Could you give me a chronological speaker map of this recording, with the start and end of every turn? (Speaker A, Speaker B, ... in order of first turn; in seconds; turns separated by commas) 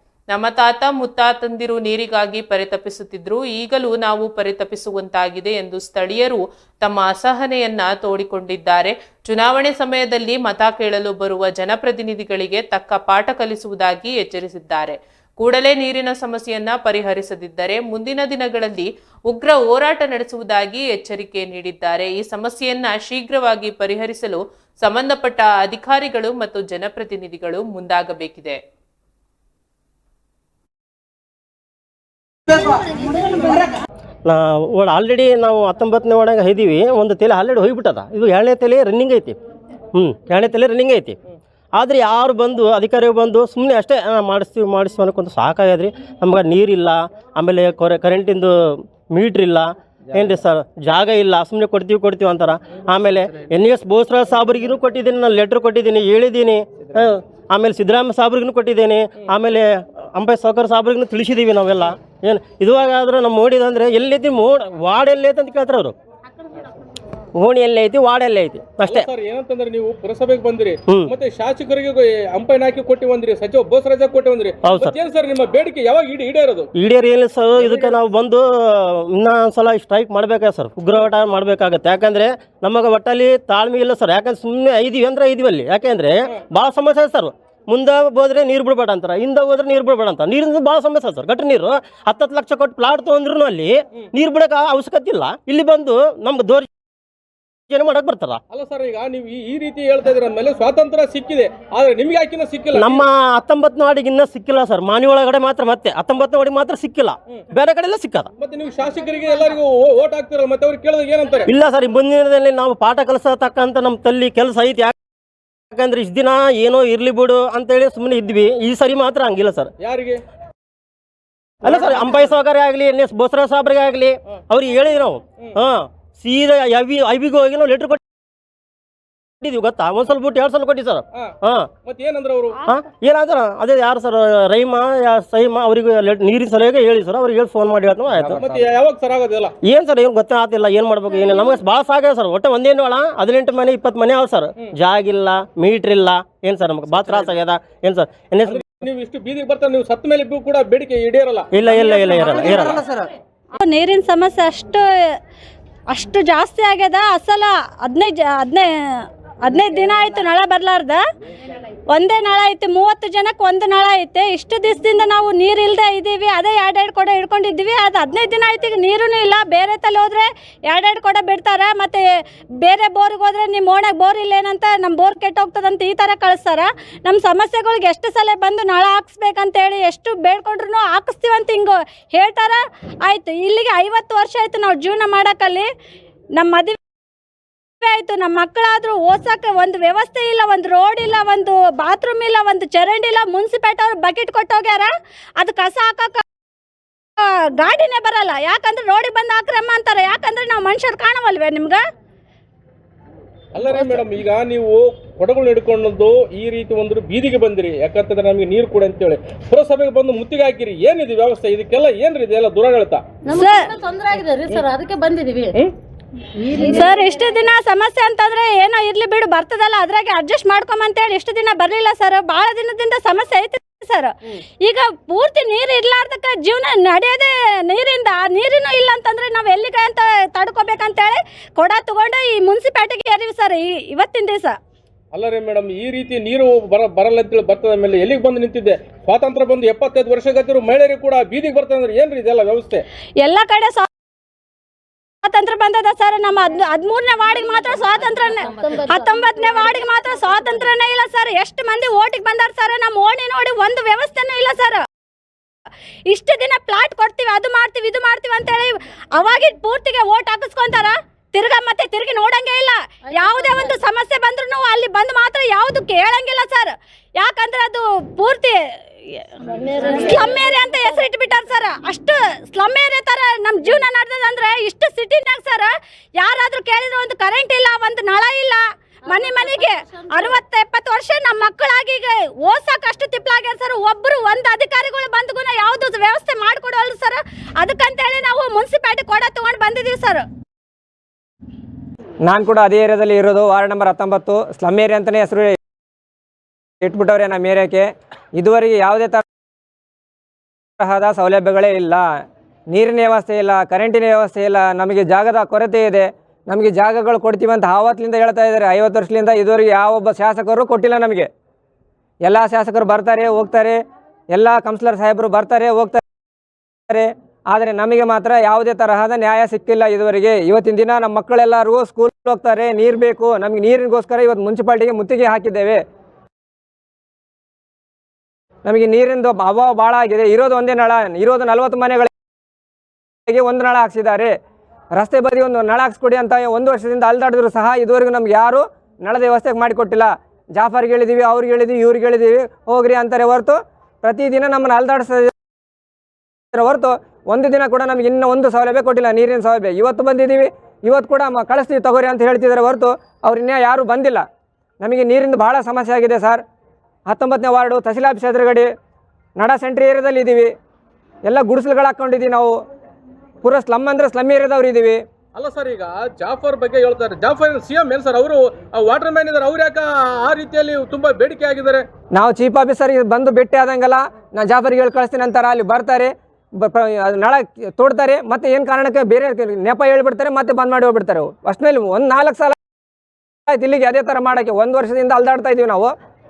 Speaker A: 0.3-28.6, Speaker B: 34.3-39.4, Speaker B: 39.9-41.2, Speaker B: 41.8-66.0, Speaker B: 67.4-69.1, Speaker C: 68.8-76.7, Speaker B: 70.9-71.1, Speaker B: 74.6-75.0, Speaker B: 76.8-96.7, Speaker C: 77.6-77.9, Speaker B: 97.7-98.4, Speaker C: 98.5-103.0, Speaker B: 102.8-108.3, Speaker C: 108.4-111.5, Speaker B: 111.5-115.0, Speaker B: 115.7-119.7, Speaker C: 119.8-120.2, Speaker B: 121.6-128.0, Speaker C: 121.6-122.2, Speaker B: 129.4-131.7, Speaker C: 131.1-132.6, Speaker B: 132.7-138.5, Speaker C: 138.3-139.6, Speaker B: 139.6-148.6, Speaker C: 146.9-147.4, Speaker C: 148.4-152.8, Speaker B: 151.5-152.8, Speaker D: 153.6-155.2, Speaker D: 155.9-161.0, Speaker D: 161.9-185.7, Speaker D: 186.4-186.8, Speaker D: 187.8-196.2, Speaker D: 197.2-201.8, Speaker C: 203.5-213.1, Speaker E: 213.2-215.6, Speaker D: 213.4-213.7, Speaker E: 216.4-216.9, Speaker D: 216.8-234.6, Speaker C: 235.1-242.8, Speaker D: 243.2-243.9, Speaker D: 245.2-254.8, Speaker E: 248.3-250.7, Speaker D: 256.1-269.4, Speaker E: 263.2-263.8, Speaker E: 269.5-271.1, Speaker D: 270.1-290.2, Speaker E: 279.1-280.4, Speaker F: 292.2-295.6, Speaker F: 296.8-299.2, Speaker F: 300.8-302.1, Speaker F: 302.7-311.3, Speaker F: 312.2-313.8, Speaker F: 314.3-316.0, Speaker F: 316.9-325.8, Speaker F: 328.6-332.1, Speaker F: 333.3-334.3, Speaker F: 334.9-345.3, Speaker F: 346.5-354.2, Speaker F: 354.8-356.4, Speaker F: 357.1-358.7, Speaker F: 359.4-360.5, Speaker F: 361.3-362.6, Speaker F: 363.4-365.0, Speaker C: 365.4-371.9, Speaker F: 372.1-382.6, Speaker F: 383.5-385.9